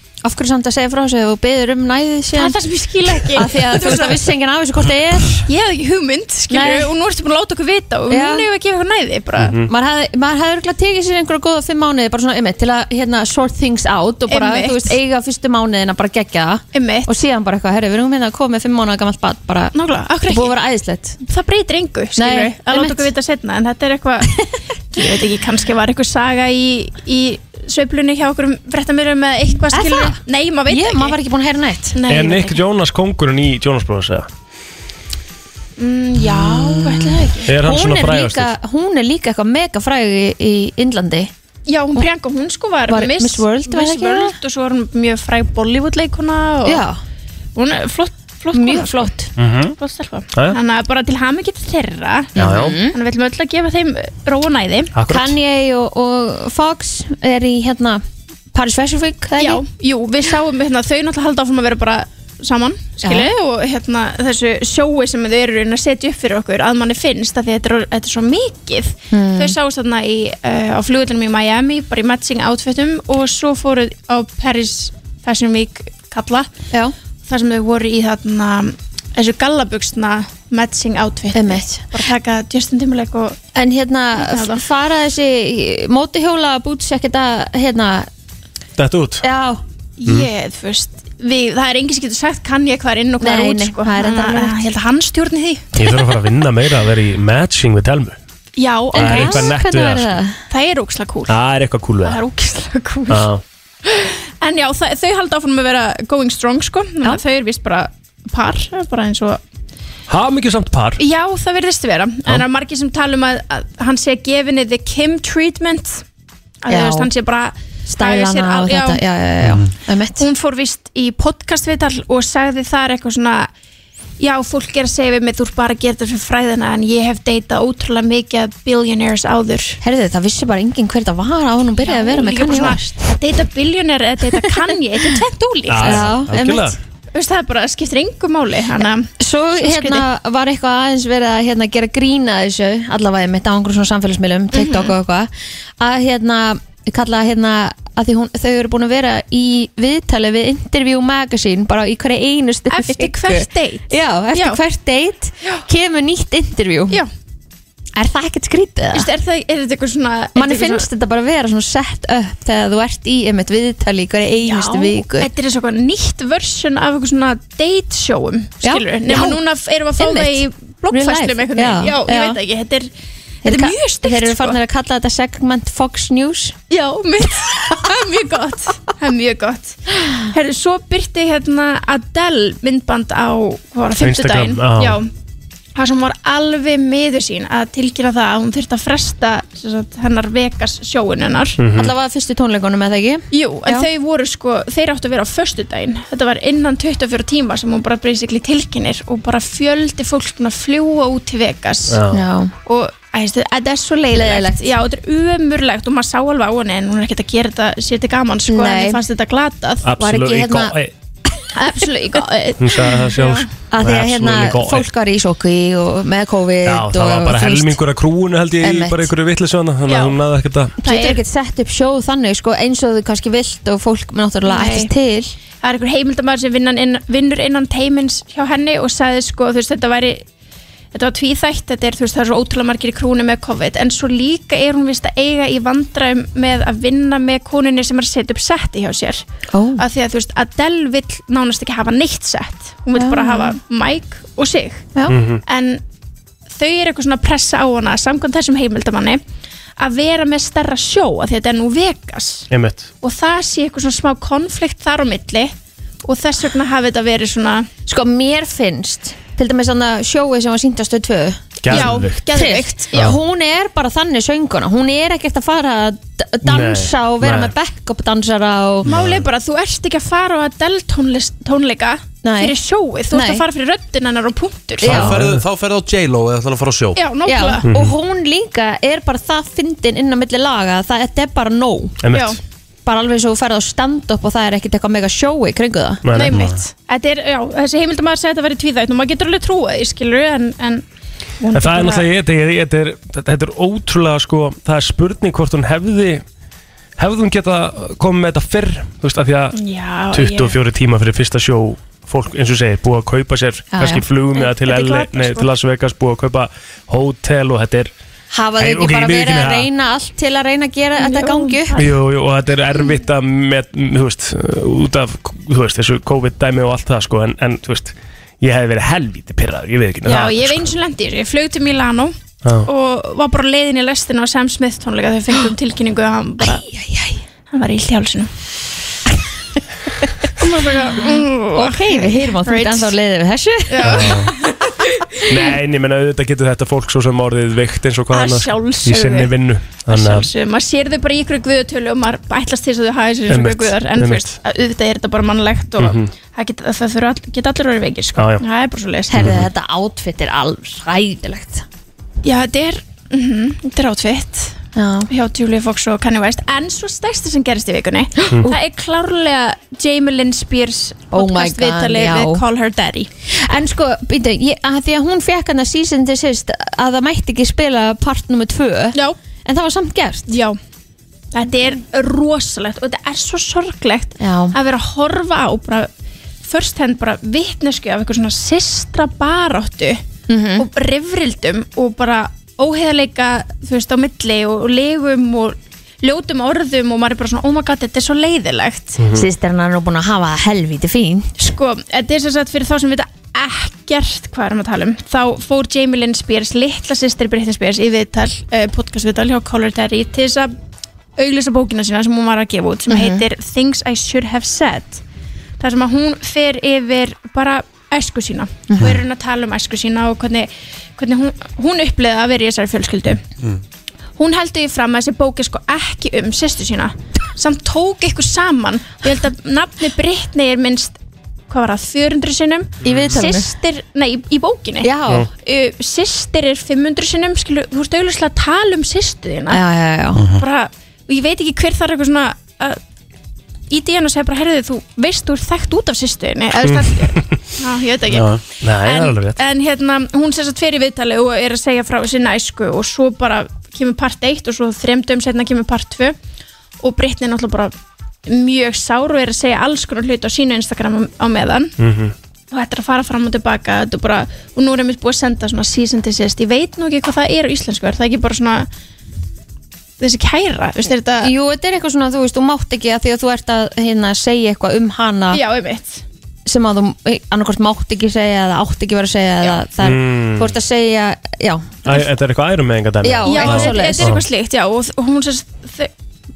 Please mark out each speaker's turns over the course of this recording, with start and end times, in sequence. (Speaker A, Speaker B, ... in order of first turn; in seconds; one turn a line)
Speaker A: 0.2-2.6
Speaker B: 2.3-4.2
Speaker A: 3.1-5.5
Speaker B: 5.5-9.6
Speaker A: 6.5-6.9
Speaker A: 8.1-8.5
Speaker C: 9.4-9.7
Speaker A: 9.6-19.8
Speaker B: 14.3-14.9
Speaker B: 16.7-17.1
Speaker B: 19.7-20.5
Speaker A: 20.3-21.2
Speaker B: 21.2-24.3
Speaker A: 22.2-23.1
Speaker B: 24.9-31.2
Speaker A: 29.7-32.0
Speaker B: 31.9-32.6
Speaker C: 32.1-34.3
Speaker B: 35.8-37.5
Speaker A: 36.2-41.3
Speaker C: 37.5-38.5
Speaker B: 41.7-46.8
Speaker A: 42.9-44.4
Speaker A: 46.6-47.0
Speaker B: 47.6-49.2
Speaker A: 48.5-49.3
Speaker C: 49.4-49.7
Speaker B: 49.8-54.9
Speaker A: 52.4-53.0
Speaker C: 52.4-52.8
Speaker C: 55.0-55.4
Speaker A: 55.1-58.0
Speaker A: 58.5-59.6
Speaker B: 59.4-76.5
Speaker A: 63.0-63.3
Speaker A: 69.1-69.5
Speaker B: 77.3-83.4
Speaker A: 81.3-81.9
Speaker A: 83.5-88.1
Speaker B: 84.2-84.6
Speaker C: 88.8-89.2
Speaker A: 89.2-89.6
Speaker B: 90.0-95.8
Speaker A: 93.2-94.7
Speaker C: 95.8-98.2
Speaker B: 98.6-99.5
Speaker A: 98.9-100.4
Speaker C: 99.0-100.1
Speaker B: 100.5-101.3
Speaker C: 101.3-102.2
Speaker B: 102.0-103.3
Speaker C: 103.1-103.4
Speaker B: 103.8-109.4
Speaker C: 110.1-111.0
Speaker B: 111.0-116.0
Speaker B: 116.6-119.0
Speaker A: 116.7-117.1
Speaker A: 117.9-120.3
Speaker B: 120.2-123.5
Speaker B: 124.2-129.8
Speaker A: 129.8-132.8
Speaker B: 131.8-136.1
Speaker C: 135.7-136.8
Speaker A: 135.8-136.8
Speaker B: 137.1-139.1
Speaker A: 139.2-157.0
Speaker B: 139.6-140.1
Speaker B: 144.5-144.9
Speaker B: 152.7-154.6
Speaker A: 158.0-159.1
Speaker B: 158.9-160.9
Speaker A: 160.3-165.3
Speaker B: 164.4-172.9
Speaker A: 168.6-169.4
Speaker A: 170.0-172.4
Speaker B: 173.4-174.6
Speaker A: 173.4-176.6
Speaker B: 176.7-185.1
Speaker C: 184.0-185.0
Speaker B: 185.8-191.6
Speaker C: 191.6-191.9
Speaker A: 191.8-193.9
Speaker B: 193.3-202.0
Speaker C: 201.9-202.2
Speaker A: 202.1-202.5
Speaker B: 202.7-209.9
Speaker A: 204.1-204.7
Speaker A: 208.5-209.0
Speaker C: 209.8-210.9
Speaker A: 210.0-210.8
Speaker B: 211.6-213.5
Speaker C: 212.6-214.9
Speaker A: 213.7-217.8
Speaker C: 216.7-220.7
Speaker A: 218.6-219.1
Speaker B: 219.9-220.2
Speaker B: 220.8-221.2
Speaker A: 220.8-225.3
Speaker B: 224.5-224.9
Speaker B: 225.6-230.2
Speaker B: 230.9-239.2
Speaker A: 239.5-239.8
Speaker B: 239.8-244.9
Speaker A: 243.0-243.6
Speaker C: 245.1-245.4
Speaker B: 245.5-245.8
Speaker B: 246.5-249.2
Speaker B: 249.8-252.5
Speaker C: 252.5-252.9
Speaker B: 253.0-255.5
Speaker B: 256.1-257.7
Speaker A: 257.9-268.9
Speaker C: 261.6-262.2
Speaker B: 261.7-263.1
Speaker C: 266.4-267.5
Speaker D: 268.9-269.2
Speaker B: 268.9-275.0
Speaker A: 272.2-272.6
Speaker A: 273.1-273.4
Speaker A: 274.8-275.2
Speaker C: 274.8-275.4
Speaker D: 274.8-277.0
Speaker B: 277.0-277.7
Speaker A: 277.3-282.0
Speaker C: 277.7-277.9
Speaker C: 282.0-282.4
Speaker B: 282.1-282.4
Speaker A: 282.9-286.0
Speaker C: 286.1-286.4
Speaker B: 286.1-290.8
Speaker D: 286.3-286.6
Speaker B: 291.4-292.1
Speaker C: 291.6-296.2
Speaker C: 297.0-299.6
Speaker B: 299.5-300.6
Speaker C: 300.1-307.9
Speaker A: 303.7-304.1
Speaker B: 304.4-305.5
Speaker A: 308.3-311.8
Speaker C: 308.6-309.7
Speaker B: 311.0-312.0
Speaker C: 311.8-320.7
Speaker B: 320.1-326.6
Speaker C: 322.4-322.7
Speaker A: 326.4-327.2
Speaker B: 327.5-328.3
Speaker B: 330.4-332.9
Speaker A: 331.5-334.2
Speaker B: 333.7-334.6
Speaker C: 333.8-334.3
Speaker C: 335.3-340.3
Speaker B: 338.1-339.3
Speaker B: 339.9-349.3
Speaker C: 343.3-344.4
Speaker C: 345.8-346.1
Speaker C: 348.2-348.4
Speaker A: 349.1-351.6
Speaker B: 352.2-354.6
Speaker A: 354.8-355.1
Speaker B: 355.1-363.1
Speaker A: 358.2-358.6
Speaker A: 361.1-362.4
Speaker A: 363.3-370.3
Speaker B: 370.3-370.6
Speaker B: 371.3-375.9
Speaker A: 374.2-374.6
Speaker B: 376.4-380.0
Speaker A: 380.3-380.7
Speaker B: 380.6-389.0
Speaker C: 389.0-389.2
Speaker A: 389.1-391.3
Speaker B: 391.4-400.5
Speaker B: 401.2-405.0
Speaker A: 402.9-403.2
Speaker B: 405.6-413.2
Speaker A: 408.7-409.0
Speaker B: 414.2-421.0
Speaker B: 421.5-429.6
Speaker A: 422.8-423.5
Speaker A: 424.8-425.3
Speaker A: 429.5-430.2
Speaker D: 430.2-430.4
Speaker B: 430.4-432.8
Speaker B: 433.7-446.2
Speaker C: 436.6-437.2
Speaker D: 438.1-438.4
Speaker C: 438.6-439.4
Speaker B: 446.8-447.7
Speaker B: 448.3-451.7
Speaker C: 451.8-452.1
Speaker B: 452.5-458.7
Speaker B: 460.0-461.3
Speaker A: 461.2-465.4
Speaker B: 465.3-466.0
Speaker A: 466.5-471.8
Speaker C: 469.8-470.6
Speaker C: 471.9-474.2
Speaker A: 473.0-474.1
Speaker B: 473.2-475.9